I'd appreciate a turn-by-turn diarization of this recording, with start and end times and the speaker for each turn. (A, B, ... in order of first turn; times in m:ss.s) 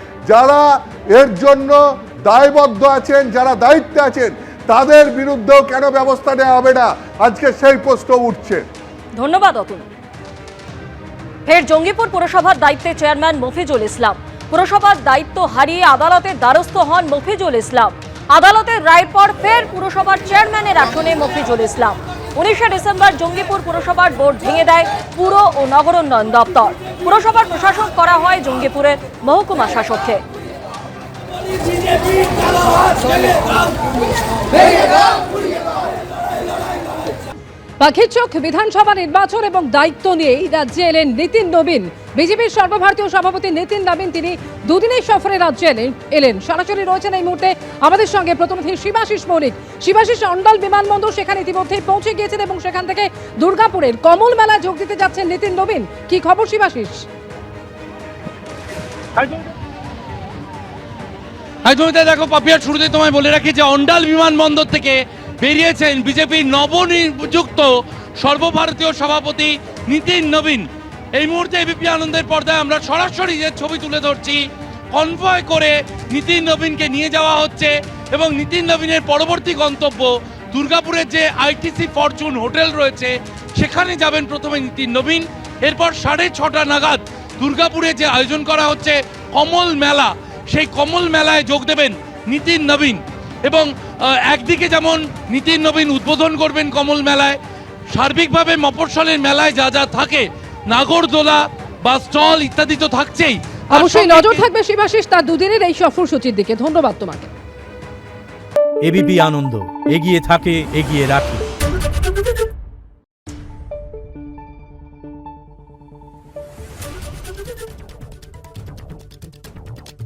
0:00.3-0:08.6 A
0:09.2-0:09.8 B
0:11.5-0:30.2 B
0:37.8-0:57.0 C
1:01.6-1:14.4 D
1:14.9-1:33.7 D
1:34.3-1:37.4 D
1:37.9-1:44.4 D
1:43.7-1:47.3 C
1:48.8-1:51.5 E